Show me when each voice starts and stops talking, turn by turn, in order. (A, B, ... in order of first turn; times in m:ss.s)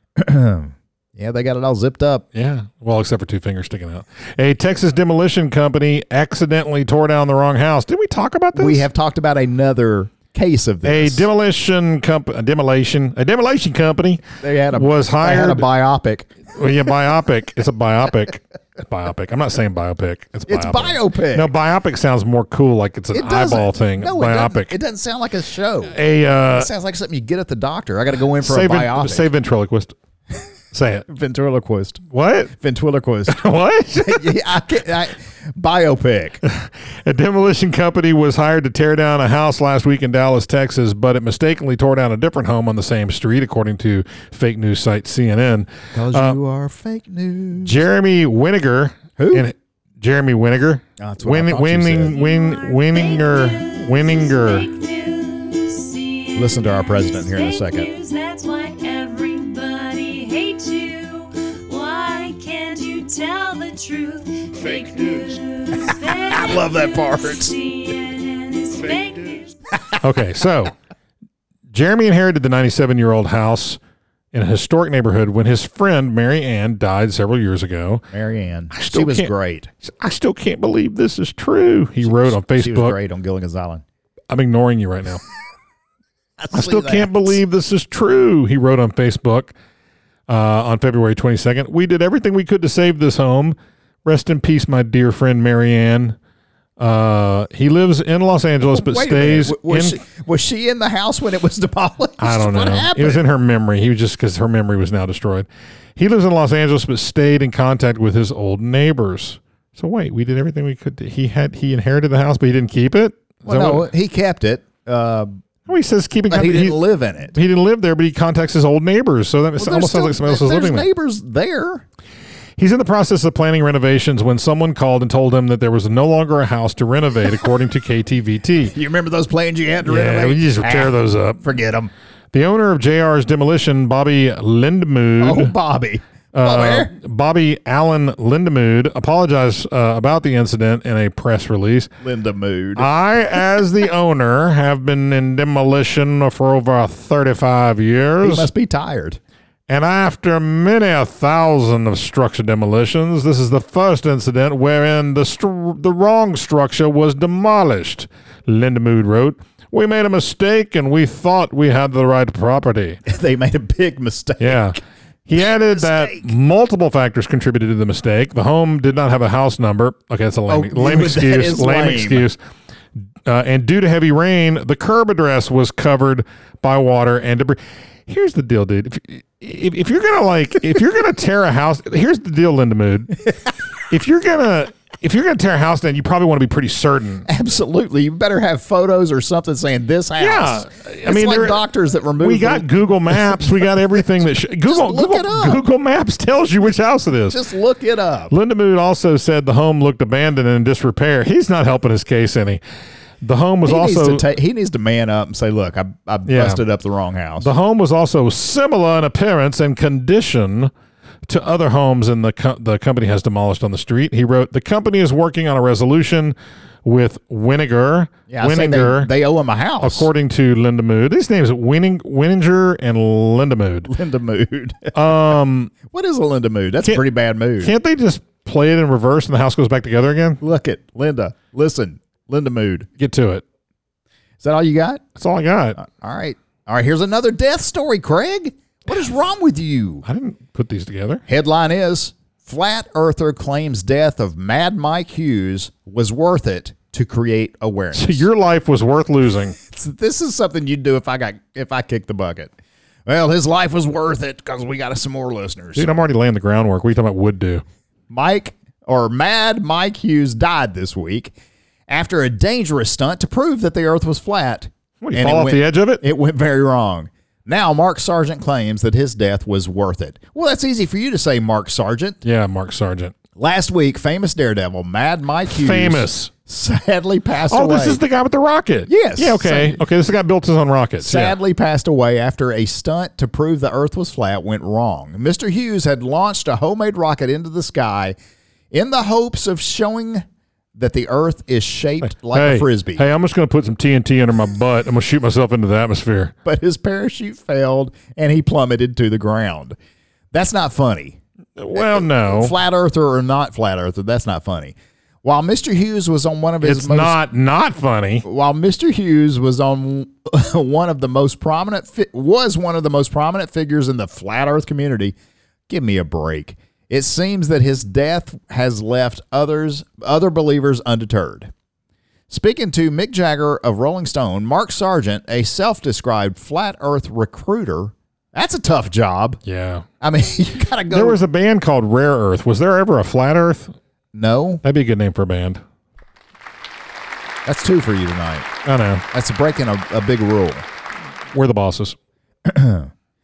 0:00.2-0:02.3 A
0:02.3-0:08.8 B
0:08.5-0:11.3 A
0:10.8-0:14.2 B
0:14.4-0:16.3 A
0:14.7-0:15.7 B
0:16.5-0:24.8 B
0:20.5-0:21.5 A
0:23.1-0:26.0 A
0:25.9-0:26.7 B
0:26.5-0:29.3 A
0:28.4-0:30.0 B
0:30.7-0:31.1 B
0:31.1-0:33.4 A
0:32.1-0:32.5 B
0:33.3-0:34.3 B
0:34.0-0:36.4 A
0:36.4-0:46.4 B
0:45.9-0:47.8 A
0:47.6-0:54.7 B
0:49.2-0:49.5 A
0:51.0-0:52.2 A
0:52.0-1:09.6 C
0:56.4-0:57.9 A
1:05.9-1:07.5 A
1:10.0-1:10.7 B
1:11.7-1:13.8 B
1:14.3-1:18.1 B
1:18.1-1:19.7 A
1:18.7-1:19.3 B
1:19.8-1:23.0 B
1:22.0-1:23.8 A
1:24.3-1:25.2 B
1:26.4-1:27.4 A
1:26.5-1:29.5 B
1:30.3-1:36.2 B
1:36.8-1:40.0 B
1:38.6-1:43.2 A
1:42.2-1:53.9 B
1:53.5-1:55.3 A
1:55.7-1:56.8 B
1:56.3-1:57.4 A
1:57.3-2:00.9 B
1:59.6-2:01.8 A
2:02.6-2:08.8 B
2:08.7-2:11.9 A
2:09.8-2:11.4 B
2:12.3-2:15.5 B
2:15.2-2:16.9 A
2:16.3-2:21.9 B
2:22.0-2:22.9 A
2:22.8-2:28.5 B
2:28.2-2:29.2 A
2:29.7-2:43.0 B
2:43.1-2:44.8 A
2:44.4-2:52.4 B
2:45.4-2:46.3 A
2:50.5-2:52.3 A
2:53.2-3:03.2 B
3:03.9-3:07.3 B
3:07.3-3:13.4 A
3:10.2-3:11.6 B
3:12.2-3:17.4 B
3:14.6-3:15.6 A
3:17.3-3:18.3 A
3:18.3-3:22.6 B
3:23.2-3:24.2 B
3:23.6-3:27.5 A
3:26.3-3:26.6 B
3:27.4-3:30.7 B
3:31.3-3:39.1 B
3:38.3-3:40.1 A
3:39.8-3:43.9 B
3:43.9-3:45.1 A
3:44.9-3:45.7 B
3:45.8-3:47.7 A
3:47.6-3:50.4 B
3:50.4-3:52.9 A
3:53.0-3:53.4 B
3:54.4-3:55.0 A
3:55.2-3:55.8 B
3:55.8-4:00.0 A
4:00.0-4:01.2 B
4:01.3-4:08.3 A
4:07.9-4:09.6 B
4:09.7-4:12.5 A
4:13.1-4:16.0 A
4:15.8-4:17.6 B
4:18.1-4:21.3 A
4:21.9-4:32.2 A
4:25.0-4:26.0 B
4:32.2-4:33.1 B
4:33.4-4:38.0 A
4:35.5-4:36.3 B
4:37.5-4:41.4 B
4:38.9-4:39.8 A
4:41.0-4:48.2 A
4:48.7-4:50.2 A
4:50.8-4:53.0 A
4:52.0-4:56.3 B
4:56.4-4:59.8 A
5:00.3-5:01.2 A
5:01.6-5:02.6 B
5:01.8-5:07.2 A
5:06.6-5:08.2 B
5:08.2-5:15.2 A
5:15.7-5:21.5 A
5:22.3-5:29.4 A
5:29.4-5:29.9 B
5:30.0-5:31.2 A
5:30.9-5:33.7 B
5:34.1-5:34.6 A
5:34.6-5:35.6 B
5:37.4-5:38.5 A
5:38.6-5:39.0 B
5:39.1-5:40.7 A
5:41.3-5:42.0 B
5:42.4-5:42.9 A